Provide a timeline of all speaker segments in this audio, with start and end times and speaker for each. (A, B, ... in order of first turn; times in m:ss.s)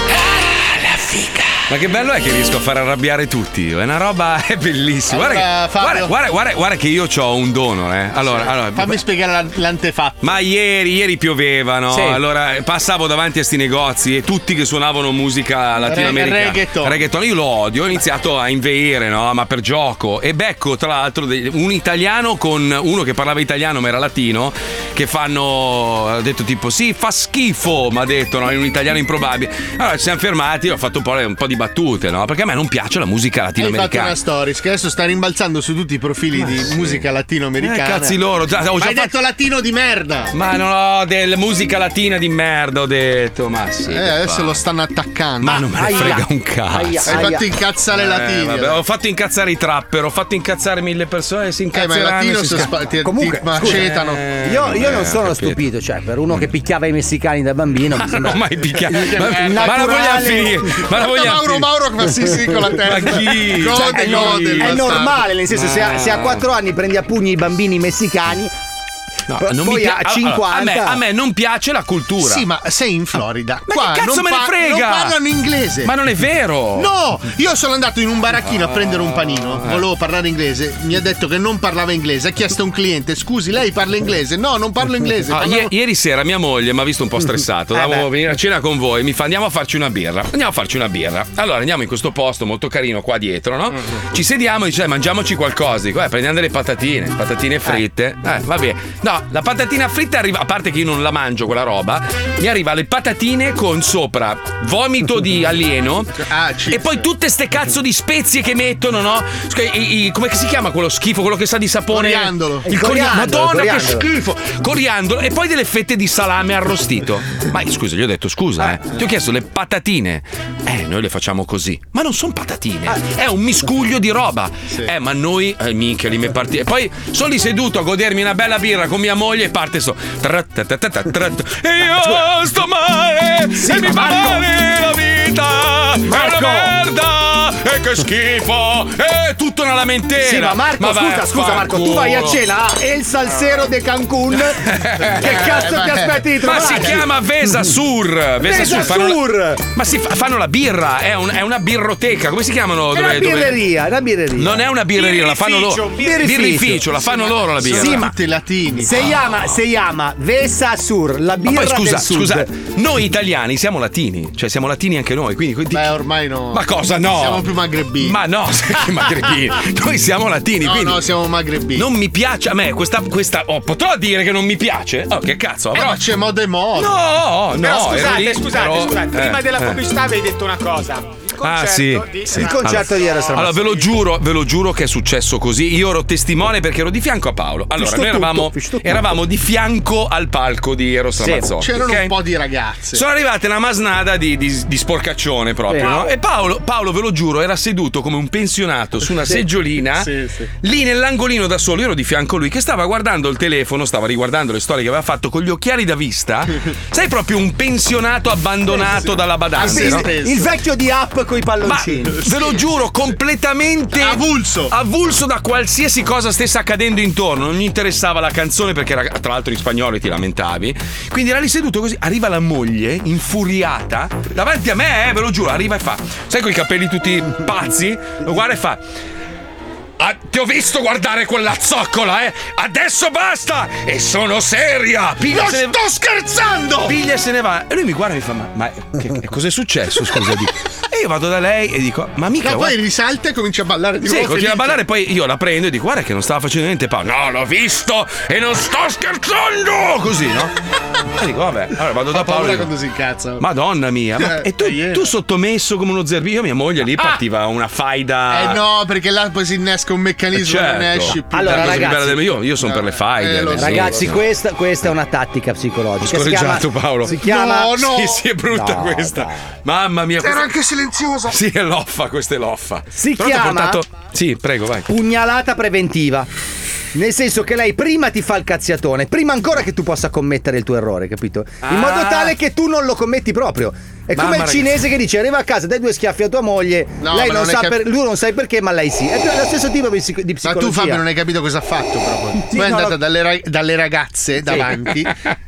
0:00.5-0:09.0 A
0:05.1-0:06.1 B
0:08.2-0:10.4 B
0:10.2-0:34.2 A
0:11.9-0:12.2 C
0:15.8-0:17.0 B
0:33.6-0:38.2 B
0:36.3-0:37.0 A
0:37.6-0:39.1 A
0:38.8-0:40.3 B
0:40.3-0:44.6 A
0:43.9-0:46.0 B
0:45.4-0:47.4 A
0:45.7-0:47.5 C
0:47.1-0:48.8 B
0:47.9-0:52.8 A
0:51.7-0:54.3 B
0:53.0-0:53.9 C
0:53.6-0:55.6 A
0:54.4-1:00.6 C
0:57.9-1:01.7 A
0:59.2-1:00.2 B
1:00.9-1:05.3 B
1:02.6-1:06.4 A
1:03.7-1:08.5 C
1:09.3-1:12.4 A
1:09.4-1:11.0 C
1:12.2-1:15.9 B
1:13.7-1:15.2 A
1:15.8-1:16.9 A
1:16.8-1:25.7 B
1:18.4-1:19.8 A
1:25.3-2:22.4 A
1:27.7-1:28.1 C
1:46.2-1:47.1 B
1:51.9-1:52.7 B
1:52.6-1:54.1 C
2:13.6-2:14.5 C
2:16.1-2:16.8 C
2:20.2-2:24.6 C
2:24.6-2:25.8 A
2:25.2-2:27.1 C
2:25.3-2:26.9 B
2:26.4-2:33.7 A
2:28.4-2:29.7 C
2:32.9-2:34.6 C
2:34.4-2:38.1 A
2:34.9-2:36.3 D
2:35.9-2:36.9 C
2:37.6-2:39.1 B
2:37.7-2:38.1 C
2:38.8-2:42.5 C
2:39.0-2:39.3 A
2:41.4-2:45.9 A
2:45.7-2:48.2 B
2:46.5-2:51.0 A
2:50.6-2:51.9 B
2:51.8-2:56.0 A
2:55.7-2:57.0 B
2:56.8-2:59.8 A
2:57.5-3:03.7 D
3:01.4-3:12.2 A
3:02.3-3:03.8 C
3:07.8-3:09.1 C
3:11.2-3:11.5 C
3:11.6-3:13.0 B
3:12.9-3:20.1 A
3:15.7-3:16.0 C
3:20.0-3:20.5 B
3:20.6-3:30.1 A
3:28.7-3:30.6 B
3:29.6-3:32.3 C
3:31.6-3:48.8 A
3:32.3-3:32.6 B
3:33.9-3:34.7 B
3:50.0-3:55.8 A
3:55.2-3:57.0 B
3:56.8-4:02.8 A
4:02.4-4:04.8 B
4:04.0-4:10.5 A
4:11.2-4:12.7 A
4:12.1-4:13.4 B
4:13.4-4:18.6 A
4:14.2-4:15.1 B
4:18.3-4:24.2 B
4:20.3-4:24.2 A
4:21.3-4:22.2 C
4:23.6-4:27.8 C
4:26.0-4:30.6 A
4:27.2-4:28.2 B
4:28.5-4:29.5 C
4:30.2-4:31.3 B
4:31.3-4:34.9 A
4:32.9-4:33.8 C
4:34.9-4:36.3 C
4:36.9-4:51.0 C
4:41.6-4:42.4 A
4:44.1-4:44.9 A
4:47.0-4:47.8 B
4:50.4-4:55.1 B
4:52.4-4:53.0 C